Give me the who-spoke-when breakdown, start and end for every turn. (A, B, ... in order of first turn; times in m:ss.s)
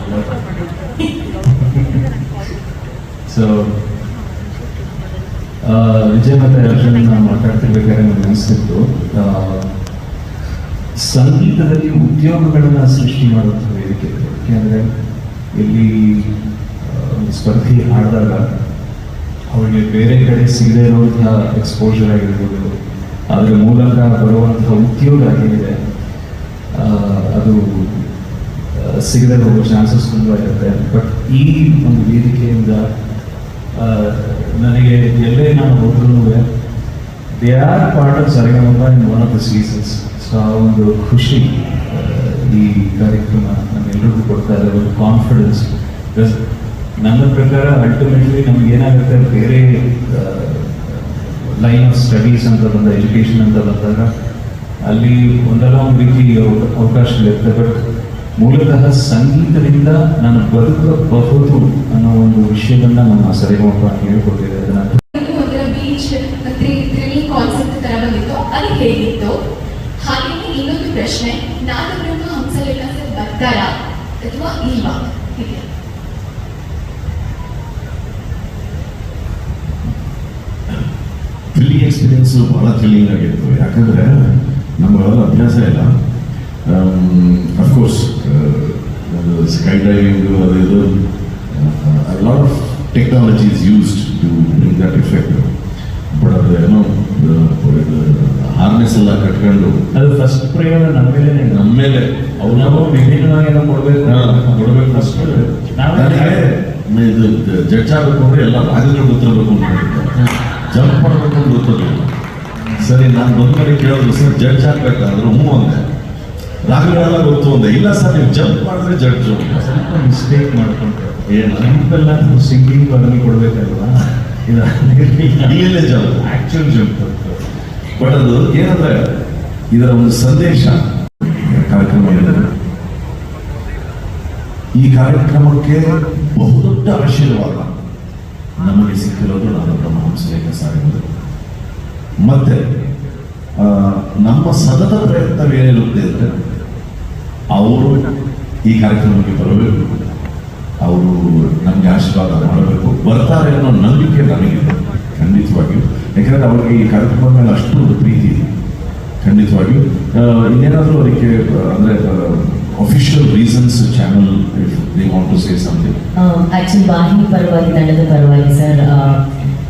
0:03.3-0:03.7 A
0:05.6-0:09.7 A
0:11.0-0:14.9 A
0:15.5-0:16.3 A
0:16.8-0:18.5 A
0:19.5-0:22.7 A
0:23.3-0:25.8 A
0:26.7-0:28.1 A
0:28.7-0:32.9 A
0:33.8-0:36.4 A
0:37.4-0:46.4 A
0:47.0-0:54.1 A
0:54.8-0:57.8 A
0:58.4-1:05.0 A
1:05.1-1:09.3 B
1:10.0-1:13.7 B
1:14.2-1:15.7 B
1:21.5-1:25.9 C
1:26.7-1:30.9 C
1:31.5-1:35.5 C
1:36.1-1:39.8 C
1:39.9-1:41.7 A
1:41.5-1:42.9 C
1:42.4-1:46.4 A
1:44.0-1:52.1 C
1:52.8-1:55.8 C
1:56.7-1:59.6 C
1:59.5-2:07.4 A
2:01.3-2:01.7 C
2:05.4-2:06.3 C
2:08.0-2:09.0 C
2:09.7-2:12.5 C
2:14.8-2:17.7 C
2:18.6-2:21.0 C
2:22.2-2:22.6 C
2:23.6-2:26.3 C
2:27.5-2:28.0 C
2:28.7-2:29.8 C
2:30.8-2:38.4 C
2:39.2-2:45.9 C
2:46.2-2:49.2 D